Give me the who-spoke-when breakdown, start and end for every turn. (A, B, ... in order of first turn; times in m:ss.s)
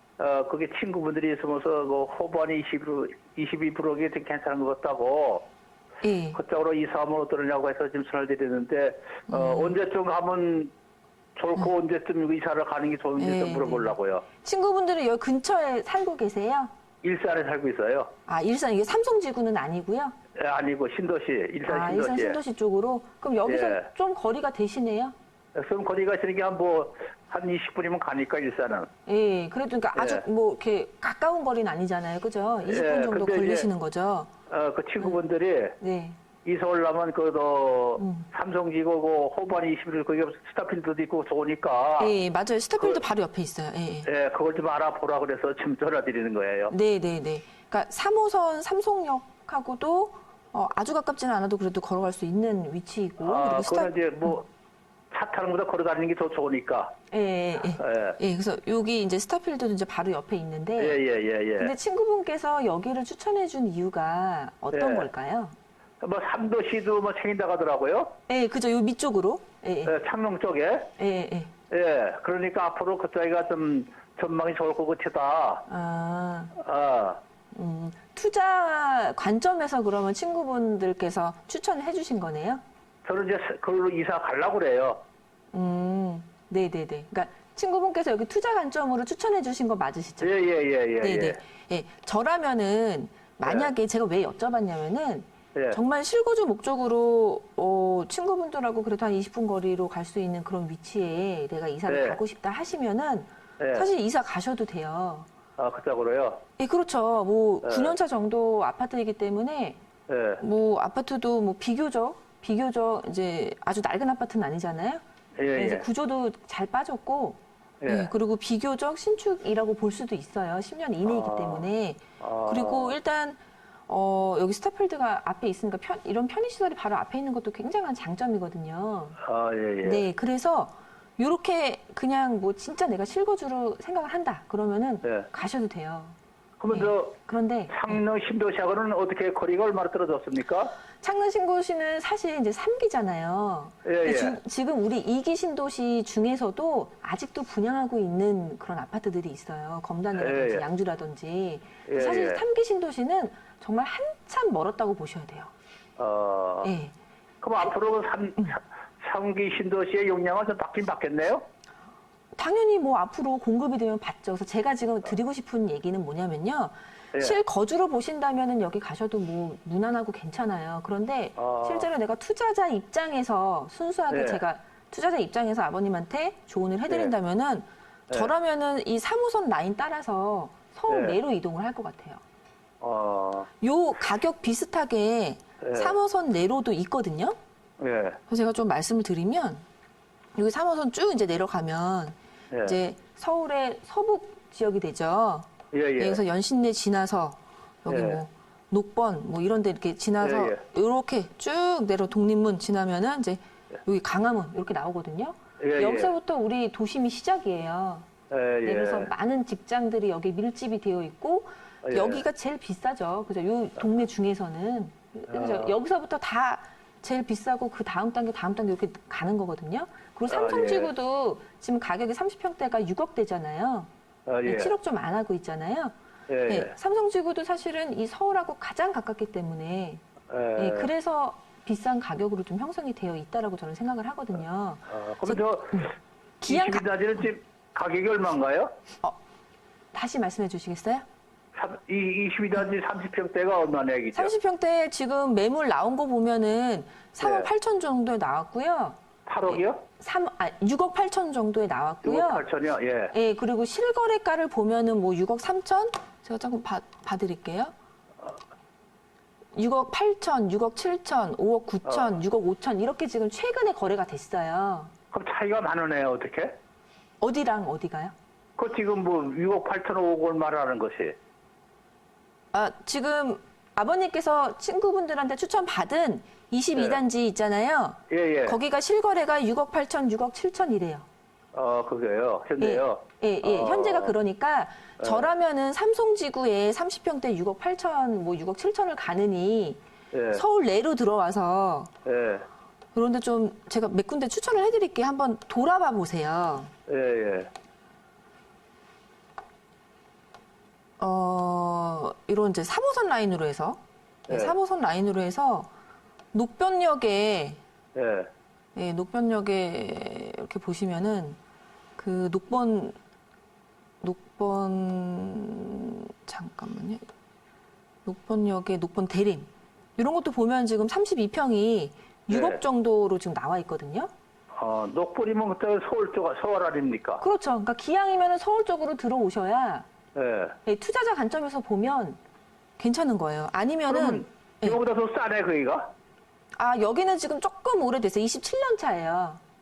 0:00.2-0:05.5 A
0:06.0-0:06.4 B
0:06.3-0:10.7 A
0:09.3-0:09.8 B
0:11.4-0:14.2 A
0:13.2-0:16.7 B
0:17.0-0:18.1 A
0:18.3-0:20.1 B
0:20.3-0:22.4 A
0:21.7-0:25.1 B
0:23.4-0:23.9 A
0:25.5-0:28.9 A
0:29.0-0:34.3 B
0:29.9-0:30.2 A
0:32.6-0:33.7 A
0:34.5-0:35.8 A
0:35.8-0:36.2 B
0:36.4-0:42.1 A
0:38.0-0:38.3 B
0:42.0-0:44.1 B
0:44.0-0:46.7 A
0:46.7-0:54.4 B
0:53.2-0:54.5 A
0:55.1-0:56.9 A
0:57.1-1:01.0 B
0:57.8-0:58.2 A
1:00.8-1:01.7 A
1:01.6-1:05.5 B
1:04.7-1:05.1 A
1:06.0-1:08.1 A
1:08.3-1:10.0 B
1:09.8-1:10.9 A
1:11.0-1:11.5 B
1:11.7-1:15.6 A
1:15.7-1:16.6 B
1:16.6-1:17.2 A
1:17.5-1:22.6 B
1:23.0-1:25.0 A
1:25.5-1:30.4 B
1:30.2-1:31.4 A
1:31.0-1:45.3 B
1:33.4-1:33.7 A
1:35.5-1:35.8 A
1:41.9-1:42.2 A
1:43.6-1:43.9 A
1:45.6-1:46.4 A
1:46.6-1:49.8 B
1:47.6-1:48.0 A
1:50.1-1:50.4 A
1:50.4-1:55.0 B
1:55.4-1:55.8 A
1:55.5-2:09.2 B
1:57.8-1:58.1 A
2:01.0-2:01.7 A
2:02.2-2:03.0 A
2:09.2-2:10.0 A
2:09.8-2:16.1 B
2:16.6-2:17.2 A
2:16.7-2:18.0 B
2:17.7-2:20.7 A
2:21.0-2:35.5 B
2:23.8-2:24.4 A
2:30.2-2:30.6 A
2:31.9-2:32.4 A
2:36.0-2:36.7 A
2:36.6-2:36.9 B
2:37.4-2:41.4 A
2:42.3-3:02.2 B
2:47.1-2:47.4 A
2:51.4-2:51.9 A
2:54.1-2:54.4 A
2:56.9-2:57.1 A
3:00.9-3:01.2 A
3:02.8-3:03.5 A
3:03.6-3:07.3 B
3:05.6-3:06.0 A
3:07.8-3:08.2 A
3:08.3-3:09.6 B
3:10.4-3:28.0 B
3:12.5-3:12.8 A
3:15.7-3:16.2 A
3:17.9-3:18.2 A
3:20.2-3:20.6 A
3:25.6-3:26.1 A
3:28.3-3:29.1 A
3:28.6-3:43.9 B
3:31.8-3:32.2 A
3:35.3-3:35.7 A
3:40.3-3:40.9 A
3:44.2-3:44.7 A
3:44.4-3:45.9 B
3:46.3-3:46.7 A
3:46.5-3:50.0 B
3:50.3-3:50.9 A
3:50.6-3:56.9 B
3:54.9-3:55.9 A
3:56.4-3:58.7 A
3:59.9-4:01.0 B
4:01.5-4:04.3 A
4:04.1-4:12.4 B
4:07.2-4:07.5 A
4:09.2-4:09.8 A
4:12.0-4:13.1 A
4:13.1-4:17.7 B
4:19.6-4:24.9 B
4:21.8-4:22.1 A
4:25.1-4:26.6 A
4:27.2-4:28.1 B
4:28.6-4:31.2 A
4:32.5-4:41.0 B
4:36.7-4:37.0 A
4:38.1-4:38.6 A
4:41.5-4:44.1 A
4:42.6-4:49.8 B
4:45.0-4:45.3 A
4:50.1-4:50.4 A
4:50.3-4:51.9 B
4:52.0-4:52.5 A
4:52.9-4:56.7 B
4:56.9-4:57.5 A
5:01.0-5:05.7 B
5:04.3-5:04.6 A
5:06.3-5:07.6 B
5:07.9-5:08.3 A
5:08.8-5:11.4 B
5:12.0-5:13.0 B
5:14.0-5:17.0 B
5:18.0-5:24.1 B
5:22.3-5:22.6 A
5:24.5-5:27.2 A
5:27.2-5:29.9 B
5:30.1-5:30.6 A
5:30.6-5:32.2 B
5:32.8-5:34.8 B
5:33.9-5:35.9 A
5:36.5-5:39.4 B